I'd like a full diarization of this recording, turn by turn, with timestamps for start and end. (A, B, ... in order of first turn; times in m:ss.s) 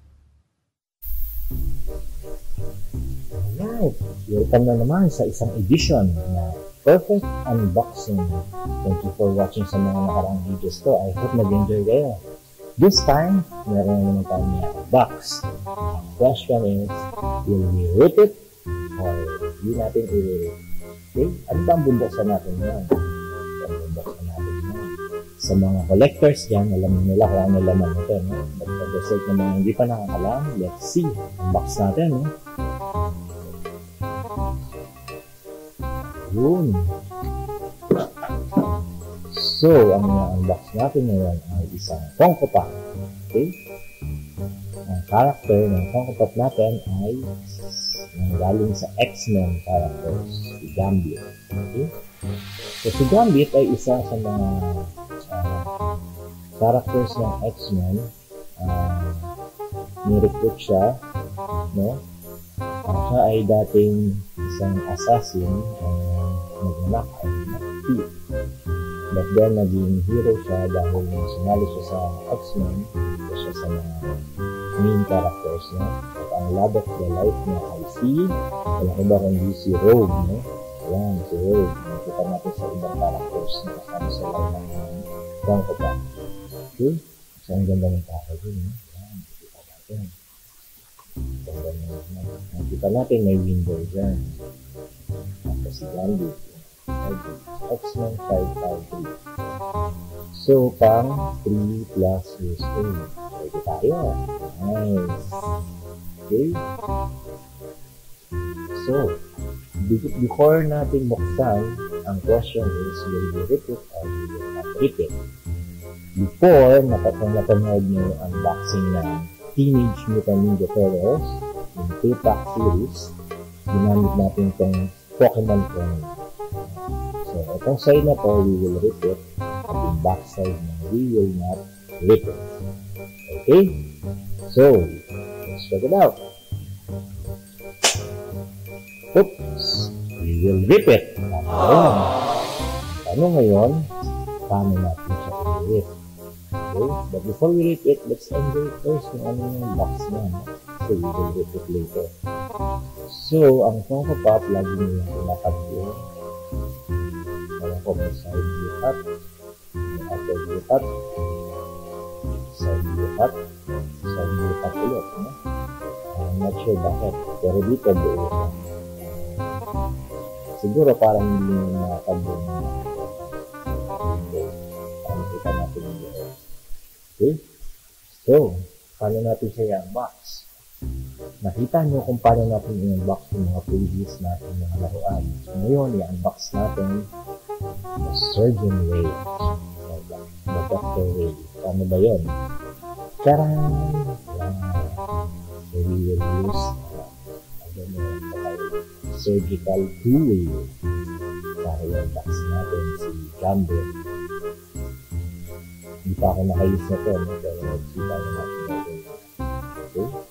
0:03.4-0:12.2 A
0:12.8-0:18.4 A
0:19.0-0:20.6 A
0:21.1-0:22.9 A
0:23.6-0:32.3 A
0:36.1-0:36.9 A
0:39.3-0:42.7 A
0:44.9-0:51.9 A
0:52.8-0:55.7 A
0:56.6-0:59.3 A
1:00.0-1:01.0 A
1:01.7-1:02.0 A
1:02.9-1:08.1 A
1:09.1-1:14.1 A
1:14.8-1:26.0 A
1:26.7-1:30.1 A
1:31.4-1:34.3 A
1:35.4-1:39.2 A
1:40.3-1:45.4 A
1:46.3-1:46.6 A
1:48.7-1:49.2 A
1:49.8-1:55.1 A
1:56.2-2:03.1 A
2:03.7-2:12.6 A
2:13.3-2:13.8 A
2:14.4-2:16.2 A
2:19.1-2:22.2 A
2:22.8-2:23.9 A
2:24.4-2:25.9 A
2:26.7-2:32.1 A
2:33.1-2:36.0 A
2:37.6-2:39.0 A
2:39.9-2:40.8 A
2:42.5-2:43.4 A
2:44.0-2:45.3 A
2:46.1-2:49.5 A
2:50.5-2:53.3 A
2:53.9-2:56.3 A
2:58.1-3:00.5 A
3:01.4-3:07.1 A
3:08.0-3:12.3 A
3:13.2-3:15.0 A
3:15.7-3:20.7 A
3:21.6-3:23.9 A
3:26.0-3:29.3 A
3:29.8-3:30.1 A